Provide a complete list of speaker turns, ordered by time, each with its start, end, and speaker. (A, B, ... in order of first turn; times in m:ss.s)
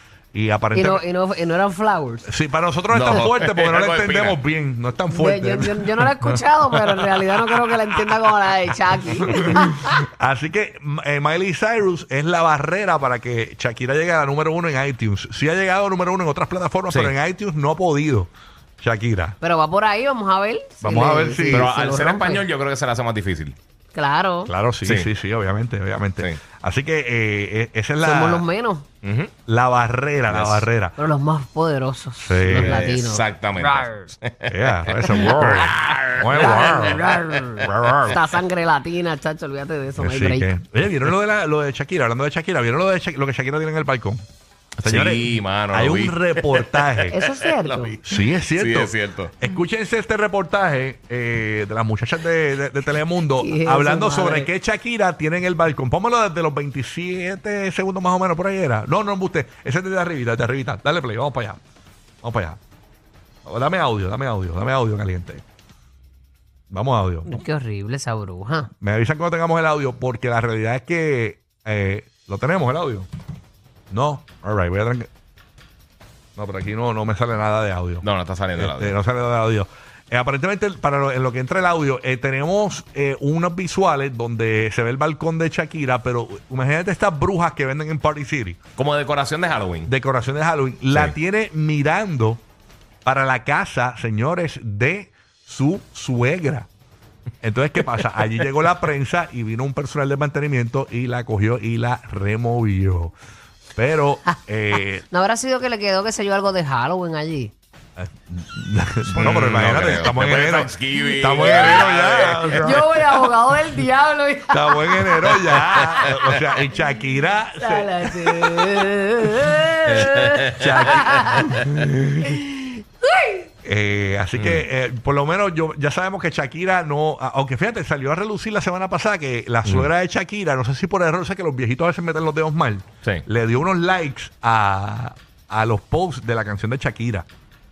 0:00.3-0:01.0 A
0:00.7-0:02.3 B
0:02.2-0:06.4 A
0:02.9-0:04.4 C
0:05.1-0:10.0 B
0:09.2-0:19.4 A
0:19.4-0:22.4 B
0:20.8-0:21.7 A
0:21.5-0:23.6 C
0:23.9-0:24.5 B
0:24.4-0:28.4 A
0:28.0-0:28.8 B
0:29.0-0:29.3 C
0:29.5-0:31.0 A
0:30.3-0:30.7 C
0:31.0-0:34.0 B
0:32.2-0:32.8 A
0:32.4-0:38.0 C
0:34.5-0:38.2 A
0:35.1-0:40.5 B
0:40.0-0:44.2 A
0:44.8-0:47.1 C
0:44.8-0:47.2 A
0:47.1-0:48.0 B
0:47.6-0:49.3 C
0:48.0-1:01.6 A
0:53.4-0:54.5 B
1:02.2-1:02.6 A
1:03.4-1:05.4 A
1:06.7-1:07.3 A
1:07.2-1:08.7 B
1:08.8-1:13.1 A
1:13.9-1:15.1 A
1:16.4-1:18.0 A
1:18.0-1:18.9 C
1:18.6-1:28.6 A
1:28.8-1:29.9 C
1:29.8-1:32.4 A
1:33.0-1:36.7 A
1:37.4-1:43.1 A
1:43.7-1:45.0 A
1:45.1-1:47.5 B
1:48.0-1:53.2 A
1:49.1-1:52.7 C
1:51.4-1:51.8 B
1:52.6-1:56.3 B
1:54.5-1:58.9 A
1:57.6-2:01.6 B
1:59.8-2:01.6 C
2:00.5-2:02.4 A
2:02.2-2:03.5 B
2:03.6-2:17.3 A
2:04.4-2:04.6 C